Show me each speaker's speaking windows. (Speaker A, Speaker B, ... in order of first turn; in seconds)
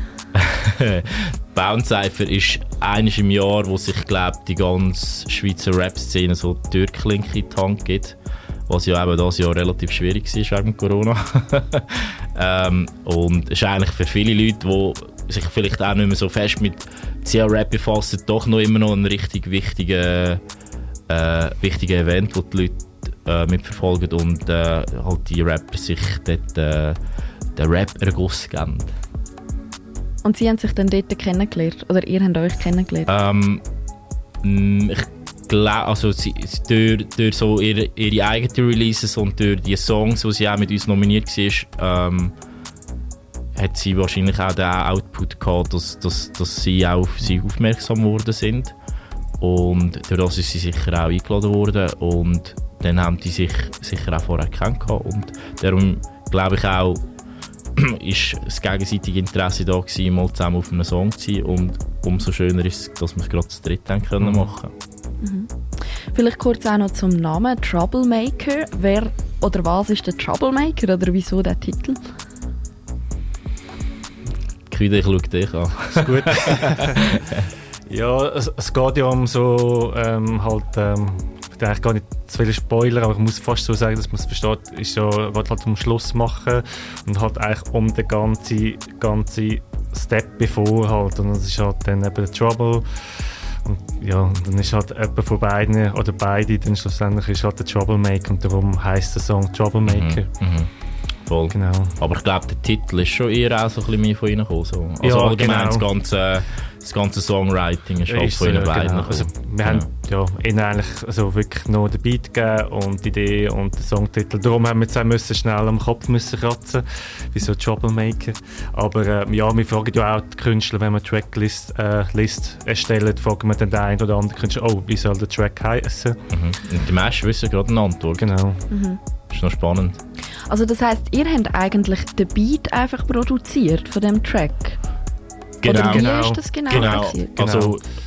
Speaker A: 0.3-8.2, 8.7-20.4, 21.1-27.0, 27.6-28.9, 33.1-33.6, 34.4-42.3, 43.5-48.8, 49.4-57.0, 57.8-64.7, 74.7-76.6, 99.9-100.7, 101.2-109.9, 126.3-128.2, 129.3-130.0, 135.6-137.8
Speaker B: 30.2-33.1, 65.2-65.5, 66.1-72.0, 128.7-129.0, 130.5-134.8, 135.6-137.3
Speaker C: 64.2-64.5, 75.9-77.1, 77.9-100.3, 101.5-102.0, 105.0-105.8, 108.1-126.2, 128.2-128.7, 135.8-137.8